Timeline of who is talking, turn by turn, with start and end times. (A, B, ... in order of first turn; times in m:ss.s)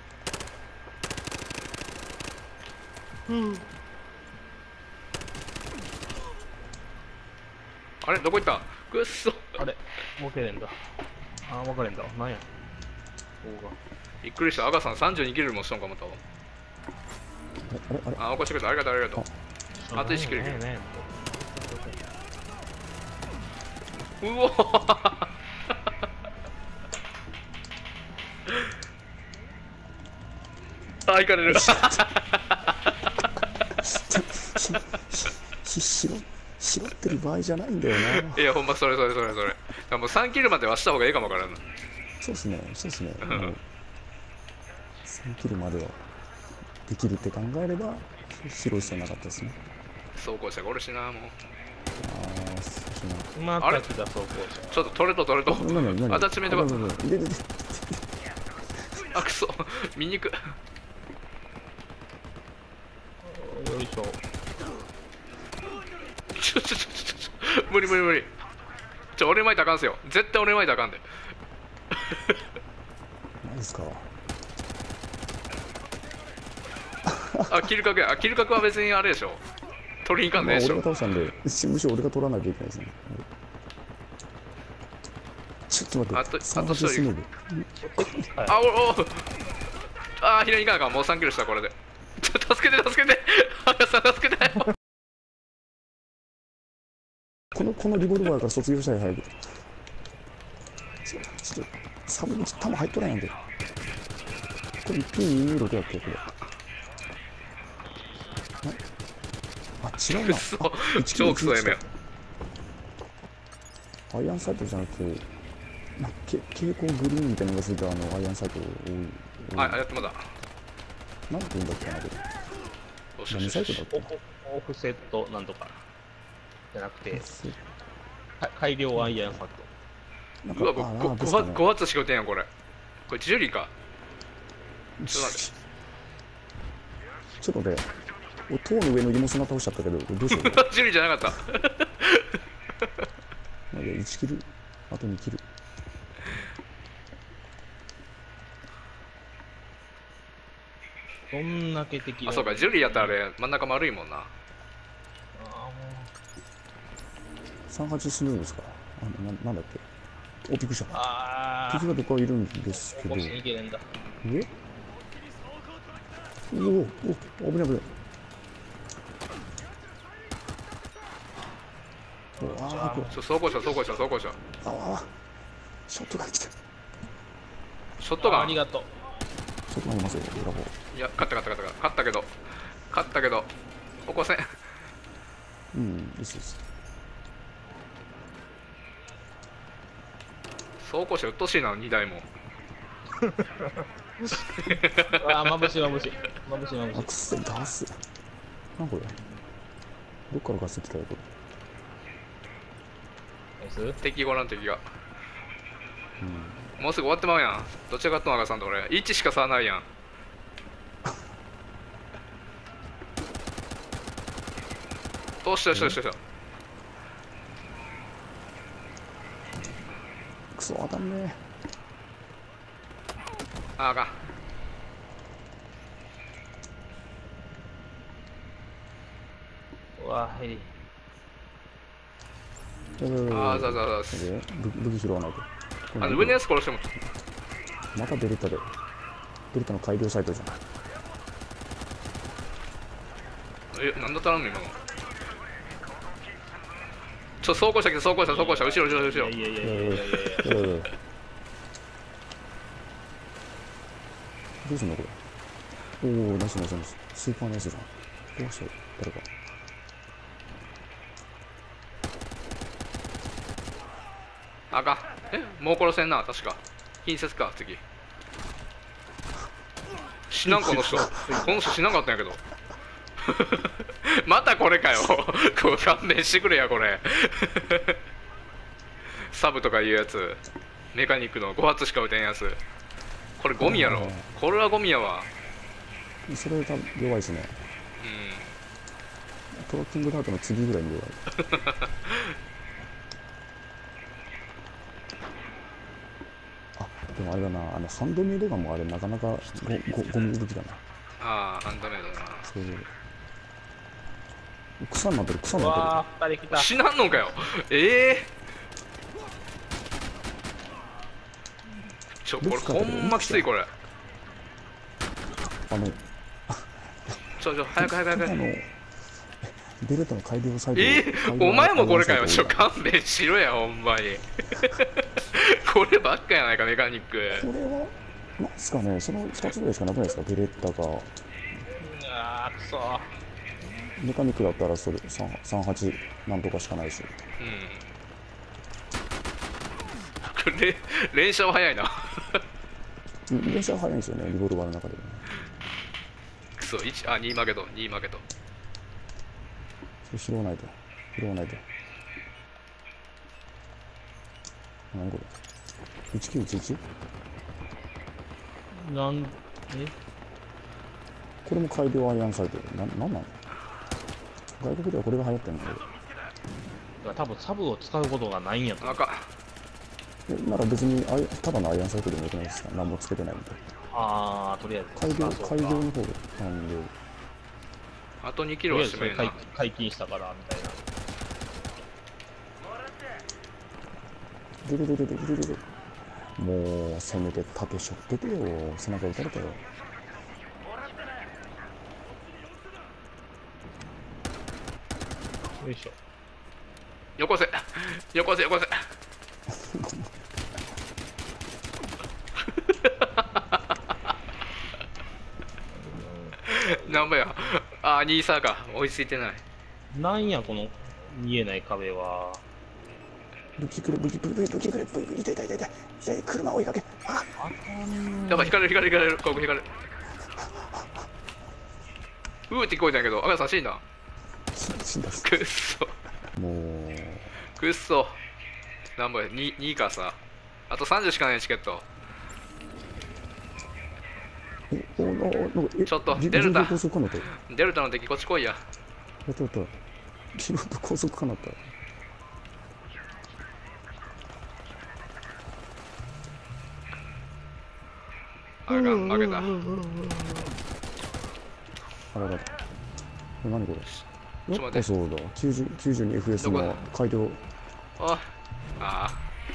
0:08.0-0:09.6 A
0:09.6-0:10.9 B
0:11.4-0:12.5 B
0:13.4-0:13.8 B
0:14.2-0:16.2 A
0:17.7-0:18.3 C
0:18.2-0:19.3 A
0:19.8-0:22.0 B
0:19.9-0:20.6 A
0:24.2-0:25.3 A
0:31.1-0:32.7 A
0:31.5-0:32.0 C
0:33.8-0:38.6 C
0:38.0-0:41.6 A
0:42.2-0:43.6 C
0:43.2-0:43.6 A
0:45.0-0:46.0 C
0:46.9-0:49.6 C
0:50.2-0:51.4 A
0:52.0-0:53.3 C
0:53.3-0:54.9 B
0:53.6-0:53.9 A
0:54.6-0:56.9 A
0:55.5-0:58.0 C
0:59.0-1:00.6 A
1:03.2-1:04.2 B
1:06.4-1:08.3 A
1:09.2-1:11.2 A
1:11.9-1:12.3 A
1:13.4-1:14.1 C
1:17.1-1:17.5 C
1:17.4-1:19.4 A
1:20.0-1:20.9 A
1:20.3-1:23.3 C
1:25.7-1:28.3 C
1:26.1-1:27.1 A
1:27.8-1:28.6 B
1:28.5-1:29.3 A
1:30.2-1:34.7 A
1:37.5-1:39.6 C
1:41.0-1:43.3 C
1:44.8-1:46.2 C
1:49.8-1:51.8 C
1:50.1-1:51.8 A
1:54.1-1:55.3 C
1:56.0-1:59.9 C
1:59.5-2:00.3 A
2:01.3-2:02.2 C
2:03.2-2:03.9 A
2:03.3-2:04.1 C
2:03.9-2:05.8 B
2:06.7-2:07.3 B
2:07.1-2:07.7 C
2:08.4-2:09.7 B
2:09.0-2:09.3 C
2:10.4-2:11.7 C
2:10.5-2:12.5 A
2:13.1-2:13.7 A
2:15.0-2:15.6 C
2:15.1-2:15.4 A
2:17.4-2:17.9 C
2:18.5-2:20.6 C
2:20.3-2:22.4 A
2:23.7-2:25.4 C
2:31.3-2:33.2 B
2:32.3-2:34.3 A
2:35.4-2:36.1 B
2:37.7-2:39.8 C
2:40.4-2:41.0 C
2:40.9-2:41.9 B
2:41.7-2:43.4 C
2:42.9-2:43.9 B
2:44.2-2:44.5 C
2:46.5-2:47.9 C
2:52.4-2:53.2 C
2:52.4-2:53.2 B
2:53.1-2:54.4 A
2:54.6-2:55.1 C
2:55.9-2:56.6 C
2:58.0-2:58.6 A
2:58.2-2:58.9 B
2:59.7-3:00.7 C
3:00.9-3:02.3 A
3:02.9-3:03.5 A
3:04.1-3:04.6 A
3:05.7-3:06.6 C
3:10.8-3:12.3 A
3:13.2-3:17.2 B
3:14.6-3:15.2 A
3:16.9-3:17.9 C
3:18.8-3:19.2 C
3:20.3-3:21.2 C
3:23.6-3:24.0 B
3:24.0-3:24.8 A
3:26.2-3:26.7 C
3:26.8-3:29.9 A
3:35.4-3:36.2 A
3:35.7-3:36.0 C
3:40.6-3:41.4 C
3:43.8-3:44.3 A
3:50.0-3:50.7 B
3:53.0-3:56.4 C
3:53.3-3:54.3 A
3:56.0-3:56.9 A
3:57.9-3:58.7 C
3:59.5-4:00.6 C
4:03.7-4:04.8 A
4:07.4-4:09.4 A
4:08.2-4:10.7 B
4:09.6-4:10.9 C
4:14.6-4:15.2 C
4:16.0-4:19.3 C
4:24.7-4:27.8 A
4:30.3-4:32.4 A
4:30.5-4:31.4 C
4:31.0-4:31.8 B
4:33.2-4:38.0 A
4:39.2-4:40.4 A
4:40.9-4:42.6 A
4:43.4-4:45.3 A
4:43.6-4:44.3 C
4:46.3-4:47.6 C
4:48.0-4:48.5 A
4:49.5-4:51.3 C
4:51.5-4:52.2 A
4:56.8-5:00.8 C
5:01.2-5:02.5 A
5:02.4-5:02.9 C
5:04.8-5:06.0 C
5:05.5-5:06.8 B
5:06.5-5:08.3 A
5:12.2-5:13.7 A
5:12.4-5:13.5 C
5:15.7-5:17.2 C
5:17.4-5:18.4 A
5:17.8-5:18.8 C
5:19.4-5:22.7 C
5:20.7-5:27.5 A
5:27.3-5:31.1 C
5:31.7-5:33.2 B
5:34.0-5:37.2 C
5:37.4-5:37.8 A
5:40.2-5:42.4 A
5:43.3-5:45.3 C
5:46.6-5:48.2 A
5:50.1-5:51.6 C
5:54.9-5:55.3 C
5:56.1-5:56.8 C
5:58.7-5:59.9 B
6:01.4-6:03.4 C
6:04.6-6:05.8 C
6:07.0-6:09.0 B
6:08.8-6:09.3 A
6:10.3-6:13.6 C
6:13.9-6:15.9 B
6:15.0-6:16.9 C
6:18.2-6:19.4 A
6:18.7-6:20.9 B
6:24.6-6:25.6 C
6:26.2-6:29.6 C
6:35.6-6:36.0 B
6:37.2-6:38.9 A
6:39.5-6:40.1 C
6:42.6-6:43.4 A
6:45.7-6:47.1 B
6:46.5-6:49.4 A
6:49.9-6:52.4 B
6:53.6-6:57.5 C
6:57.4-6:58.6 B
6:58.3-6:59.7 A
7:00.6-7:00.8 C
7:02.5-7:03.8 A
7:04.5-7:05.3 C
7:05.2-7:05.9 A
7:06.4-7:07.4 C
7:07.4-7:08.2 A
7:09.0-7:10.2 A
7:10.7-7:11.8 A
7:14.7-7:17.3 C
7:15.9-7:18.6 A
7:19.3-7:19.7 C
7:20.4-7:21.6 C
7:28.7-7:29.6 A
7:29.5-7:30.1 B
7:32.1-7:32.5 C
7:33.4-7:33.9 C
7:34.5-7:37.4 C
7:34.5-7:34.9 A
7:36.4-7:36.8 A
7:38.0-7:39.2 A